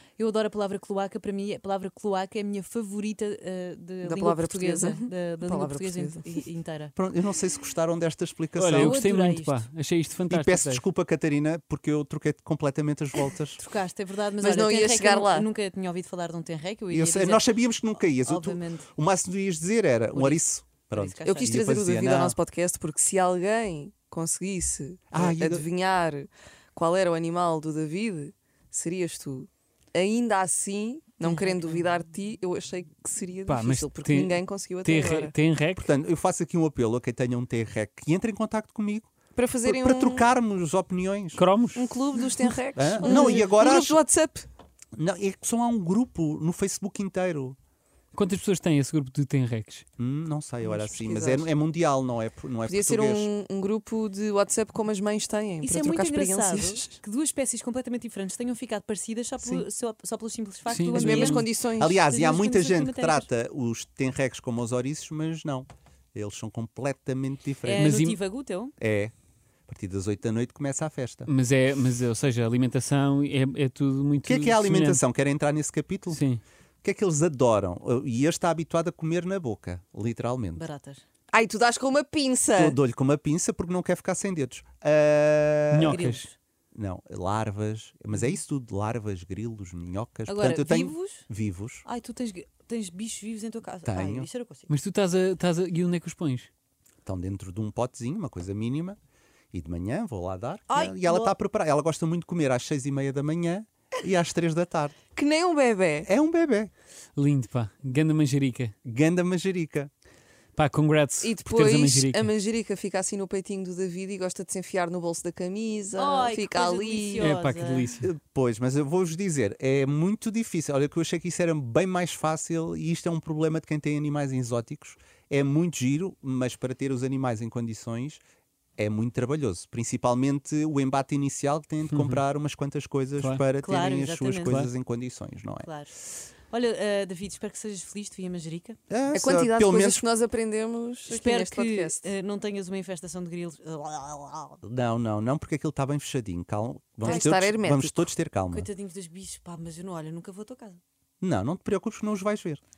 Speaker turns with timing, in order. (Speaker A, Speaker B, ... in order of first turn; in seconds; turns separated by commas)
Speaker A: 0.2-6.9, Speaker B: 4.0-6.2, Speaker C: 7.0-9.0, Speaker D: 8.6-10.8, Speaker A: 8.8-9.6, Speaker C: 10.3-13.6, Speaker A: 13.6-17.5, Speaker B: 14.4-15.5, Speaker C: 16.9-22.4, Speaker A: 18.2-18.9, Speaker A: 20.1-21.7, Speaker B: 21.2-35.3, Speaker C: 25.1-25.6, Speaker A: 31.2-31.9, Speaker D: 33.5-35.9, Speaker C: 35.8-39.1, Speaker B: 39.4-40.3, Speaker C: 39.6-41.4, Speaker D: 41.3-41.9, Speaker B: 41.7-44.5, Speaker C: 42.8-44.0, Speaker C: 45.0-47.5, Speaker D: 48.1-49.8, Speaker C: 50.0-53.3, Speaker B: 50.6-51.5, Speaker B: 52.6-57.0, Speaker A: 55.6-61.4, Speaker C: 59.4-59.6, Speaker D: 60.7-61.4, Speaker B: 60.9-62.0, Speaker C: 61.8-68.0, Speaker A: 62.0-63.3, Speaker A: 67.6-68.7, Speaker D: 67.7-68.2, Speaker C: 68.8-69.1, Speaker C: 69.7-71.3, Speaker D: 71.3-75.0, Speaker C: 74.2-76.2, Speaker D: 76.1-76.4, Speaker C: 76.8-80.7, Speaker A: 80.5-81.0, Speaker B: 81.3-82.8, Speaker C: 82.5-86.1, Speaker D: 85.7-86.3, Speaker A: 85.9-86.3, Speaker C: 86.7-91.8, Speaker A: 88.1-88.4, Speaker A: 90.3-91.2, Speaker A: 91.8-94.7, Speaker C: 93.8-94.3, Speaker D: 94.7-96.5, Speaker C: 97.0-99.0, Speaker C: 99.5-105.0, Speaker A: 100.7-101.3, Speaker B: 105.1-106.1, Speaker C: 106.0-106.7, Speaker D: 107.2-108.7, Speaker C: 108.8-109.9, Speaker D: 110.5-112.3, Speaker B: 111.2-117.3, Speaker A: 116.0-117.9, Speaker D: 117.2-118.1, Speaker C: 118.0-128.2, Speaker C: 128.8-135.7, Speaker D: 131.9-132.2, Speaker A: 133.6-134.6, Speaker A: 135.6-135.9, Speaker A: 136.5-138.8, Speaker C: 138.9-140.0, Speaker B: 139.1-142.1, Speaker A: 141.1-144.6, Speaker C: 144.6-148.7, Speaker B: 147.0-148.1, Speaker A: 147.0-147.3, Speaker A: 148.5-150.8, Speaker C: 151.2-152.6